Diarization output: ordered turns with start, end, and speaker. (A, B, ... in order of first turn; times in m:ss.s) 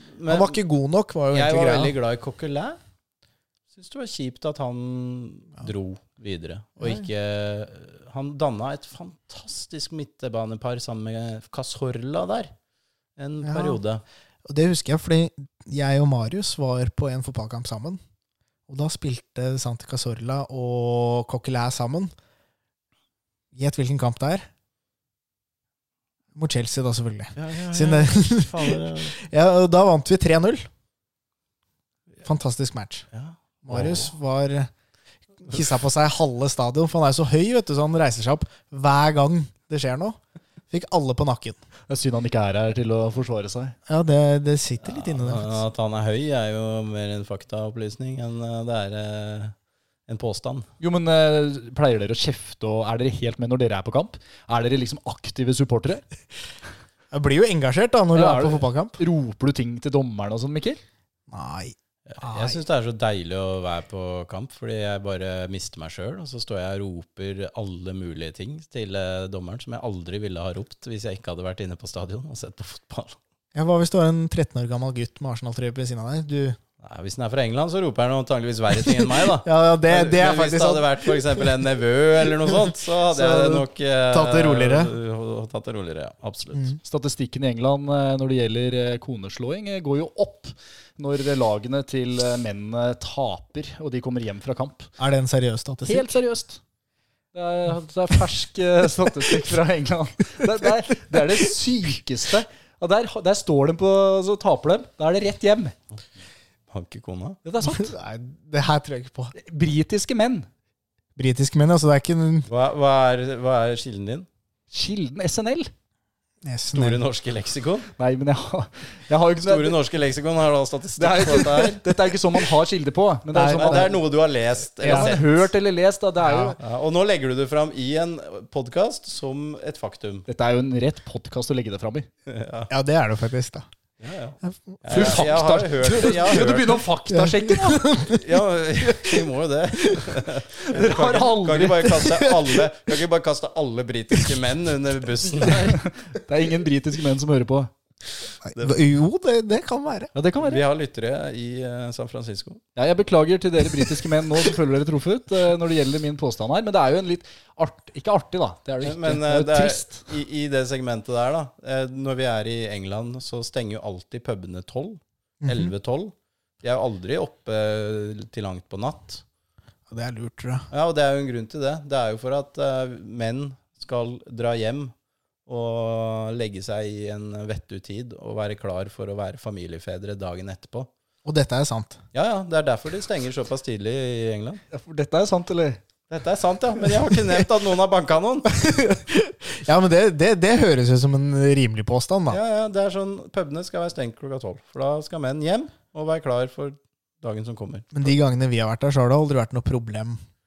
0:00.1-0:00.6 A
0:00.3-0:01.9 B
0:01.3-0:02.8 A
0:03.7-0:12.5 A
0:06.8-0:07.1 B
0:13.2-0:14.0 A
0:13.4-0:13.8 B
0:14.5-0:18.0 B
0:18.7-0:22.1 B
0:23.5-0:24.5 B
0:26.3-0:30.7 B
0:27.4-0:29.2 A
0:32.2-0:33.1 B
0:33.1-0:34.1 A
0:33.6-0:34.7 B
0:35.4-0:40.2 B
0:40.7-0:41.6 B
0:41.9-0:43.8 C
0:43.9-0:45.6 B
0:44.8-0:49.5 A
0:50.1-0:50.7 A
0:50.8-0:56.0 C
0:57.1-0:59.0 B
0:58.1-1:00.8 C
1:01.3-1:02.6 B
1:02.1-1:13.2 A
1:13.5-1:16.6 B
1:16.8-1:26.8 A
1:18.9-1:21.5 B
1:22.2-1:24.9 B
1:26.8-1:34.9 C
1:35.0-1:36.1 B
1:35.8-1:36.6 C
1:37.3-1:45.8 C
1:46.7-1:47.4 A
1:47.4-1:47.9 C
1:47.6-1:49.3 B
1:49.3-1:50.5 C
1:51.2-1:52.5 B
1:52.5-1:54.3 A
1:54.7-1:55.7 C
1:56.4-1:57.0 B
1:56.7-1:57.9 A
1:58.0-1:59.8 C
1:59.4-2:02.1 A
2:01.0-2:03.9 C
2:03.3-2:03.9 B
2:03.6-2:05.5 A
2:04.8-2:05.1 B
2:04.8-2:06.6 C
2:06.2-2:06.5 B
2:06.6-2:10.2 A
2:10.3-2:12.1 C
2:12.2-2:12.7 A
2:12.7-2:13.6 B
2:14.0-2:16.8 A
2:14.4-2:15.2 B
2:14.9-2:17.9 C
2:17.1-2:18.2 B
2:18.1-2:25.8 A
2:18.8-2:19.2 B
2:19.8-2:20.1 B
2:20.6-2:22.0 C
2:22.0-2:22.6 B
2:25.4-2:27.7 C
2:28.4-2:30.1 B
2:30.1-2:30.6 C
2:30.4-2:32.6 A
2:32.8-2:40.1 C
2:38.8-2:49.2 A
2:45.4-2:45.7 B
2:49.9-2:50.7 B
2:50.7-2:54.9 A
2:55.5-3:00.9 A
3:01.2-3:02.0 B
3:02.1-3:04.6 A
3:04.7-3:05.8 C
3:06.1-3:08.5 A
3:08.5-3:12.4 B
3:12.3-3:18.1 A
3:17.9-3:20.2 B